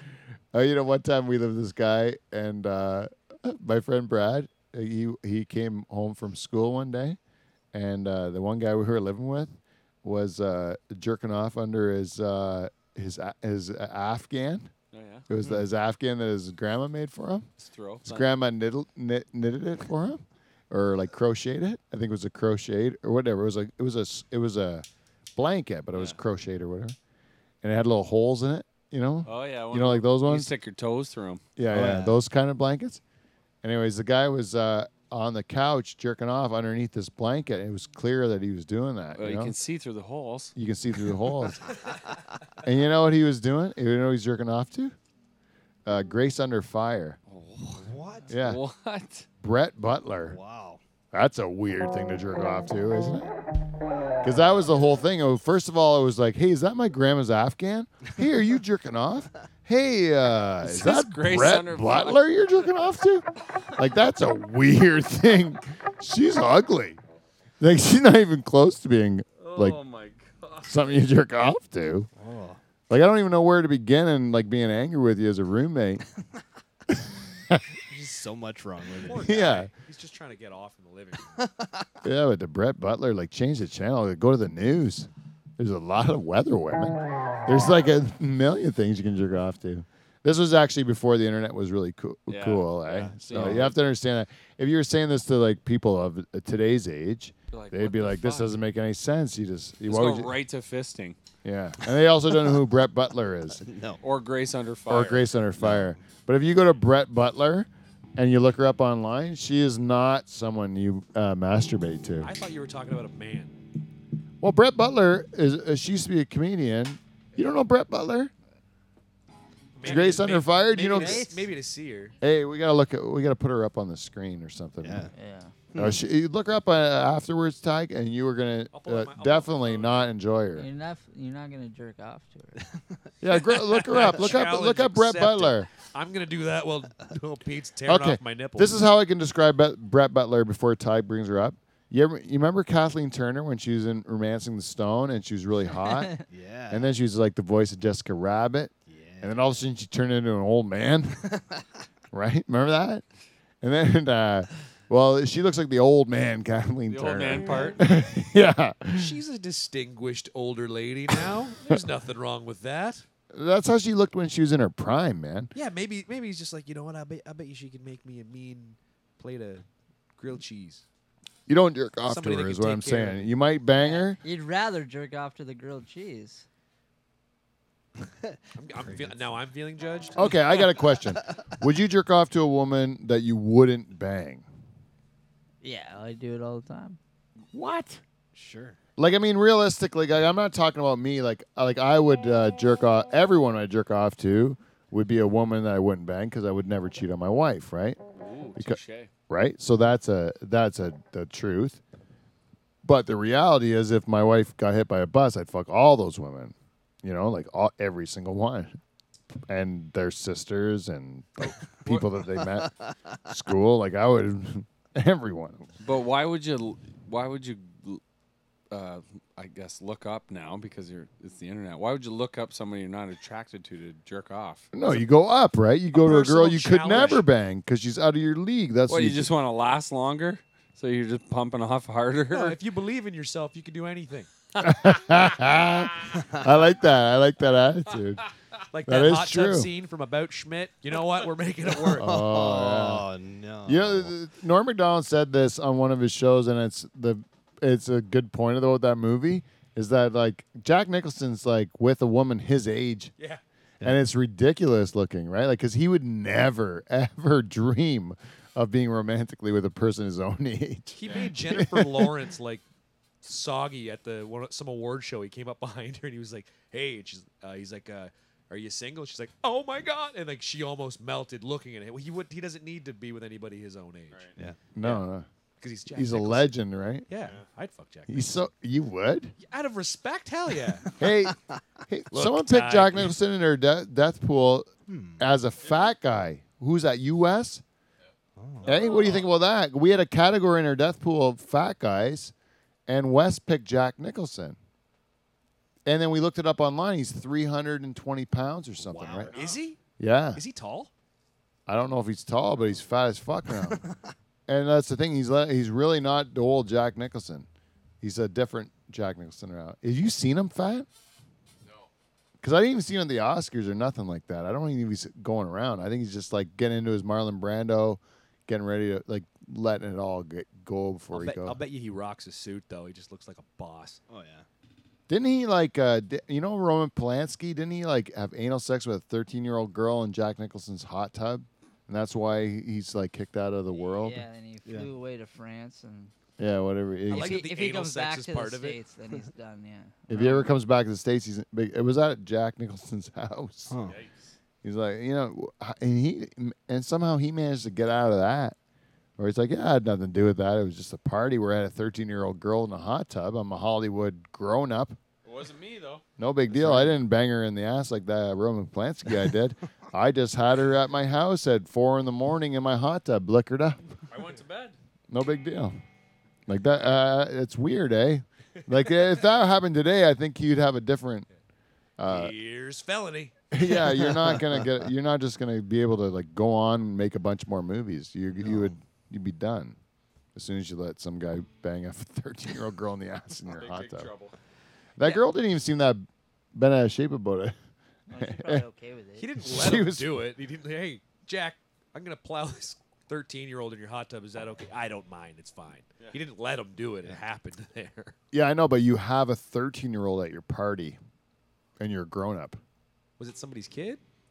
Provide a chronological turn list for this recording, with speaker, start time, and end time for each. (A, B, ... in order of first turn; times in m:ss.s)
0:00.5-0:07.2 A
0:07.7-0:14.7 A
0:14.9-0:15.3 B
0:15.3-0:17.5 A
0:17.6-0:18.3 B
0:18.0-0:24.8 A
0:25.4-0:27.0 A
0:27.6-0:30.5 A
0:29.3-0:31.4 B
0:31.6-0:33.0 A
0:31.7-0:32.2 C
0:33.6-0:39.6 A
0:39.2-0:40.5 B
0:40.6-0:41.7 A
0:42.6-0:45.0 A
0:45.9-0:47.2 A
0:47.3-0:49.3 B
0:47.7-0:48.3 C
0:48.3-0:48.6 A
0:49.4-0:50.4 A
0:50.3-0:50.8 C
0:51.1-0:53.3 A
0:54.2-1:07.0 A
1:00.6-1:02.2 B
1:07.6-1:09.8 A
1:09.4-1:11.0 B
1:10.7-1:12.1 A
1:12.2-1:12.6 C
1:12.9-1:16.0 A
1:17.9-1:19.5 C
1:19.0-1:21.4 D
1:19.2-1:19.7 A
1:21.3-1:22.0 C
1:22.0-1:40.3 A
1:32.3-1:33.8 B
1:33.3-1:33.6 C
1:37.5-1:38.5 B
1:39.9-1:41.2 B
1:41.4-1:43.6 A
1:43.6-1:44.0 C
1:44.0-1:45.3 B
1:44.9-1:52.3 A
1:45.6-1:46.0 C
1:52.2-1:53.6 D
1:54.4-1:58.3 A
1:59.8-2:02.2 D
1:59.8-2:01.2 A
2:00.9-2:01.5 E
2:02.2-2:05.1 A
2:04.8-2:05.1 C
2:05.1-2:05.5 E
2:05.7-2:06.0 C
2:05.8-2:10.7 A
2:08.7-2:10.1 D
2:10.5-2:12.6 E
2:12.6-2:12.8 C
2:13.2-2:15.7 A
2:13.9-2:18.8 D
2:17.9-2:26.2 A
2:26.3-2:26.9 C
2:26.7-2:31.3 A
2:28.9-2:29.5 C
2:31.3-2:31.6 C
2:32.1-2:33.0 A
2:33.6-2:39.2 A
2:36.9-2:37.9 B
2:38.9-2:43.0 D
2:43.3-2:45.5 A
2:45.5-2:49.6 D
2:50.2-2:50.8 D
2:51.5-2:54.2 A
2:52.1-2:53.3 D
2:53.8-2:56.4 E
2:58.0-2:59.2 C
2:58.6-3:00.3 D
3:00.2-3:04.4 A
3:05.6-3:07.0 E
3:07.5-3:07.9 B
3:07.6-3:07.9 A
3:08.3-3:08.8 C
3:09.0-3:18.0 A
3:18.2-3:19.1 B
3:18.6-3:21.8 A
3:22.8-3:28.7 A
3:29.5-3:32.7 A
3:33.3-3:35.7 A
3:35.8-3:38.0 B
3:38.7-3:44.7 B
3:44.7-3:49.3 A
3:45.9-3:47.2 D
3:48.9-3:52.6 B
3:52.3-3:54.3 D
3:54.6-3:58.2 A
3:56.1-3:56.5 C
3:58.7-4:02.2 D
3:58.9-3:59.7 A
4:01.8-4:04.1 C
4:02.0-4:03.1 A
4:03.7-4:13.1 A
4:13.8-4:22.1 A
4:20.9-4:22.6 D
4:23.2-4:34.3 D
4:34.4-4:34.7 C
4:34.8-4:35.3 A
4:34.8-4:35.1 D
4:35.6-4:36.5 D
4:35.9-4:37.1 A
4:37.1-4:38.4 D
4:38.1-4:39.3 A
4:39.4-4:41.0 D
4:41.0-4:41.4 A
4:41.0-4:41.6 C
4:41.9-4:47.6 A
4:42.1-4:43.2 D
4:44.9-4:45.2 C
4:48.4-4:48.8 C
4:48.6-4:52.3 A
4:52.9-4:54.6 A
4:55.9-4:59.3 A
4:58.9-4:59.8 D
5:00.0-5:00.4 A
5:00.3-5:00.9 D
5:01.7-5:03.8 A
5:03.5-5:04.1 C
5:04.5-5:07.5 A
5:08.0-5:10.9 A
5:12.4-5:21.6 A
5:21.1-5:24.0 D
5:24.1-5:24.5 C
5:25.1-5:34.2 A
5:34.0-5:36.1 E
5:36.4-5:37.4 A
5:37.1-5:38.8 D
5:37.1-5:40.4 E
5:40.1-5:43.7 A
5:40.2-5:40.4 C
5:43.7-5:44.0 C
5:43.8-5:44.3 B
5:44.6-5:48.6 A
5:49.2-5:55.0 A
5:55.2-5:56.0 B
5:56.2-6:03.8 A
5:56.5-5:56.9 C
6:04.1-6:04.8 B
6:05.1-6:05.8 A
6:06.5-6:11.3 A
6:12.0-6:12.4 A
6:12.0-6:13.3 D
6:13.5-6:19.8 A
6:13.8-6:14.7 C
6:18.4-6:18.8 C
6:20.4-6:24.1 A
6:23.5-6:24.4 B
6:25.0-6:26.0 A
6:26.6-6:27.6 A
6:28.1-6:29.3 E
6:28.2-6:28.6 A
6:29.2-6:38.2 D
6:29.4-6:30.2 A
6:38.3-6:41.0 A
6:41.8-6:42.6 A
6:43.2-6:44.0 D